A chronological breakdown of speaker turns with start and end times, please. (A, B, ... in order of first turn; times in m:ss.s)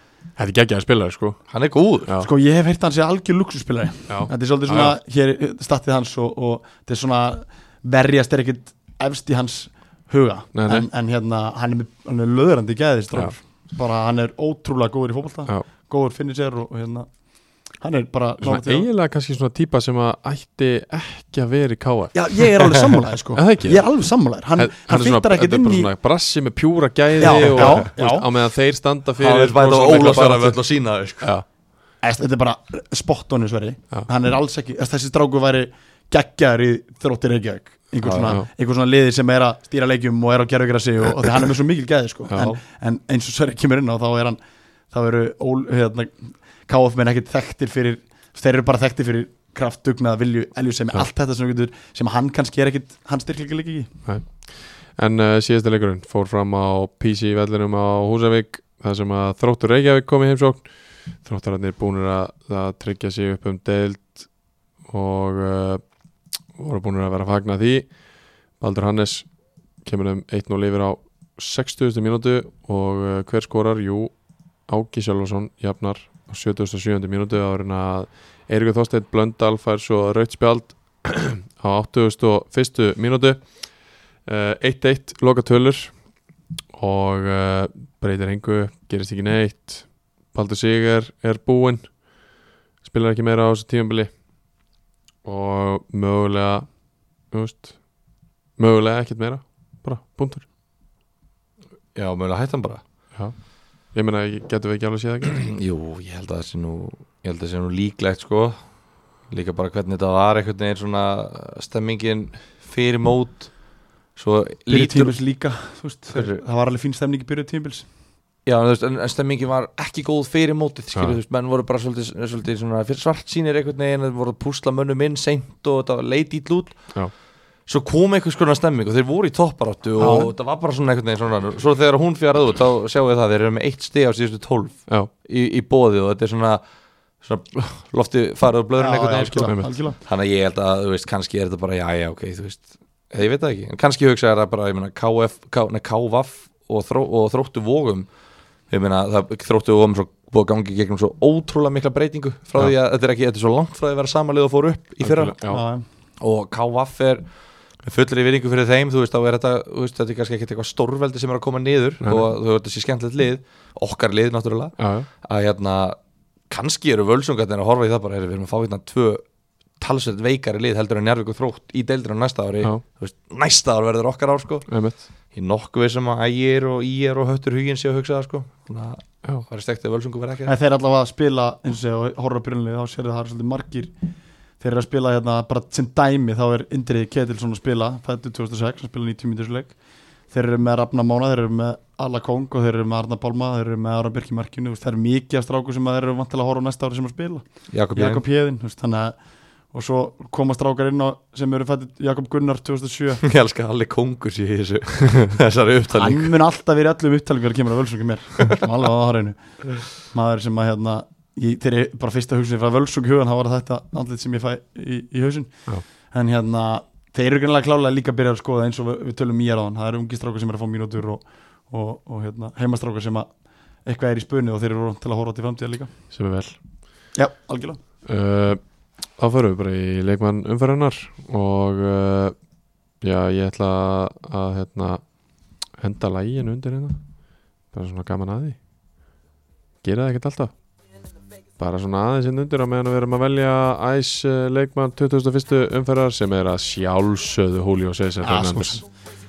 0:00.4-0:01.4 A
0:01.5-0:02.1 B
0:02.2-0:17.1 C
0:04.1-0:05.0 A
0:10.5-0:10.9 A
0:17.8-0:18.9 C
0:18.4-0:22.5 A
0:22.1-0:25.9 C
0:23.3-0:23.8 A
0:24.6-0:30.6 A
0:27.2-0:28.3 C
0:27.2-0:27.9 B
0:29.2-0:31.3 B
0:31.2-0:31.4 A
0:32.0-0:53.9 C
0:38.0-0:38.4 B
0:54.0-1:04.3 A
1:04.9-1:05.8 A
1:06.5-1:07.9 A
1:08.6-1:09.3 A
1:09.8-1:14.1 A
1:14.7-1:23.5 A
1:24.2-1:26.0 A
1:26.7-1:31.9 A
1:32.8-1:34.1 A
1:35.2-1:36.7 A
1:37.3-1:37.8 A
1:38.6-1:40.4 A
1:41.9-1:42.8 B
1:43.9-1:45.5 A
1:45.3-1:48.6 B
1:49.3-1:53.6 B
1:54.1-1:55.1 B
1:54.7-1:57.9 C
1:56.1-1:56.4 B
1:58.4-2:07.0 B
2:07.7-2:16.6 B
2:10.0-2:10.3 C
2:17.2-2:28.1 B
2:18.8-2:20.0 C
2:19.4-2:19.7 A
2:28.7-2:35.3 B
2:35.0-2:35.6 A
2:35.5-2:35.8 C
2:36.2-2:37.2 B
2:37.8-2:46.0 B
2:42.0-2:42.3 A
2:44.8-2:45.1 A
2:46.5-2:49.2 B
2:49.8-2:54.7 B
2:54.7-2:55.0 A
2:55.3-3:00.5 B
3:00.4-3:03.9 C
3:04.6-3:09.8 C
3:10.3-3:19.2 C
3:17.7-3:18.2 B
3:19.7-3:23.2 C
3:23.2-3:26.3 B
3:25.9-3:45.9 C
3:46.1-3:46.6 A
3:47.1-3:47.8 C
3:48.0-3:48.6 A
3:49.2-3:52.4 A
3:53.0-3:55.0 A
3:55.8-3:57.0 A
3:57.7-3:58.6 A
3:59.8-4:00.5 A
4:01.6-4:08.8 A
4:08.2-4:08.9 C